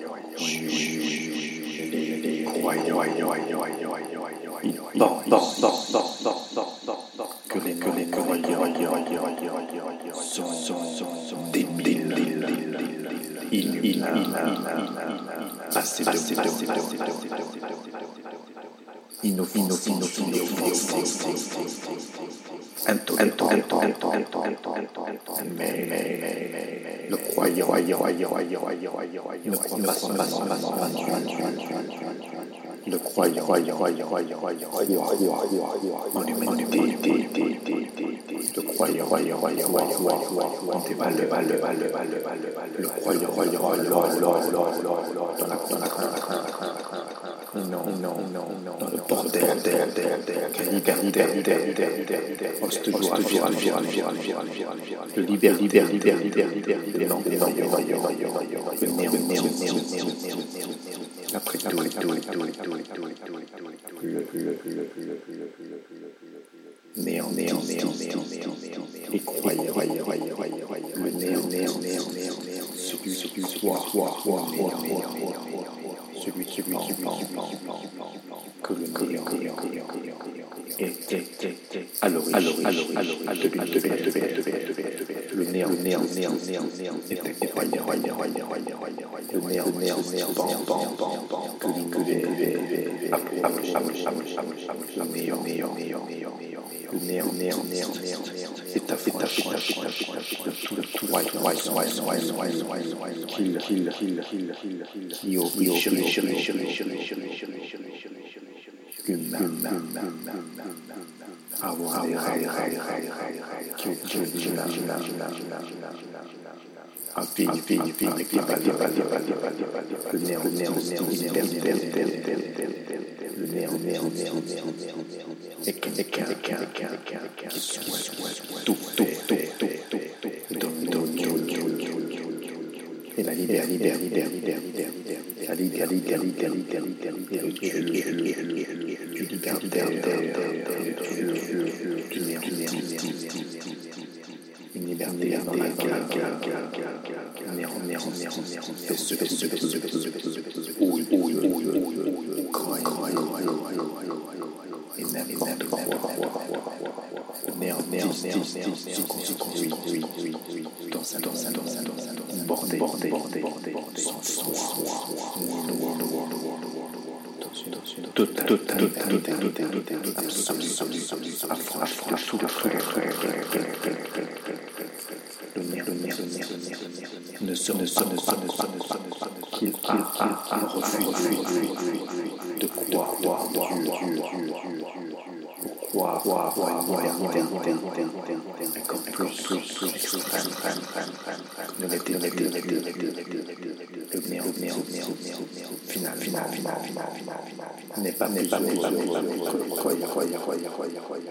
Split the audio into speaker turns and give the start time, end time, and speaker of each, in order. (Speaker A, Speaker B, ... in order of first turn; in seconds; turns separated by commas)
Speaker A: 0.2-3.9, Speaker A: 4.5-6.7, Speaker A: 7.3-18.1, Speaker A: 19.2-22.0, Speaker A: 22.8-31.9, Speaker A: 32.9-46.7, Speaker A: 47.5-64.9, Speaker A: 67.0-108.1, Speaker A: 109.0-110.9, Speaker A: 111.6-116.1, Speaker A: 117.1-132.5, Speaker A: 133.1-143.8, Speaker A: 144.7-154.3, Speaker A: 154.8-174.5, Speaker A: 175.5-184.8, Speaker A: 185.6-200.8